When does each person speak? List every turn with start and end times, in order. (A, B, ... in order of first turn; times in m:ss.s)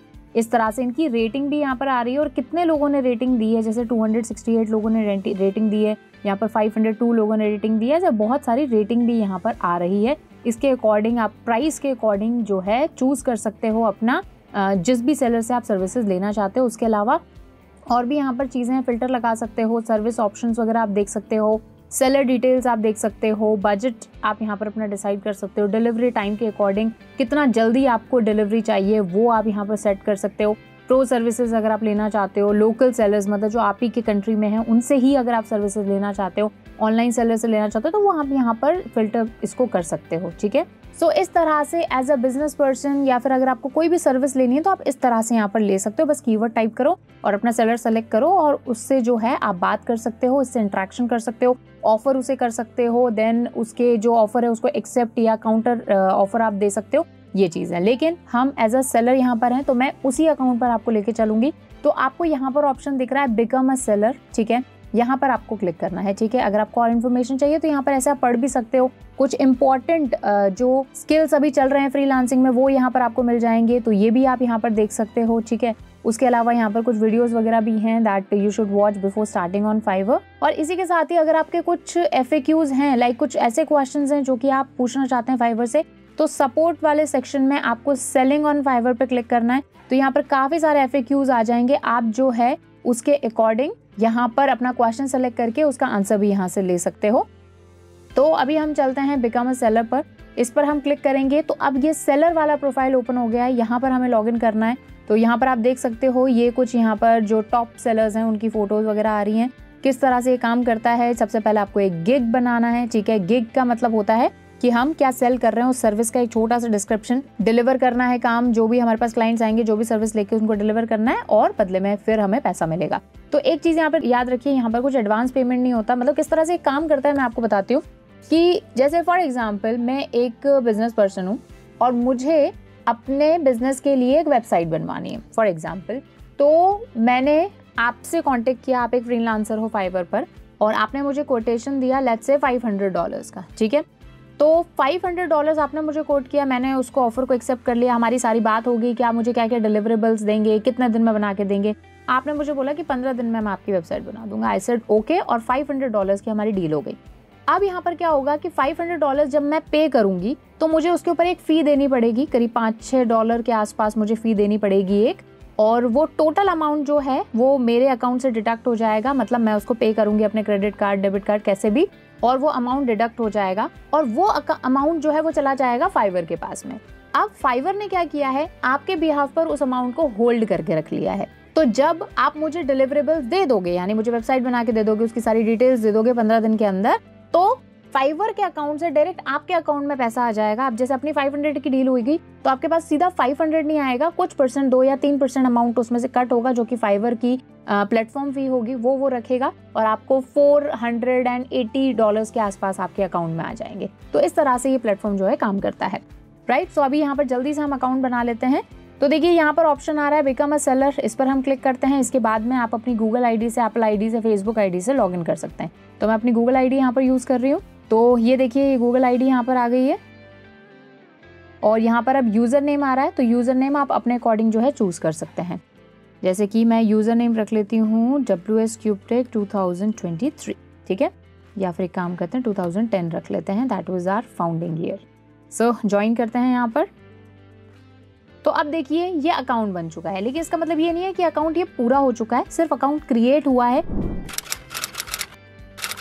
0:00.4-0:17.2 A
0:17.9-1:37.3 A
1:38.2-2:23.8 A
2:24.4-2:37.0 A
2:37.5-3:40.0 A
3:41.6-3:45.6 A
3:46.2-3:56.9 A
3:58.4-4:03.8 A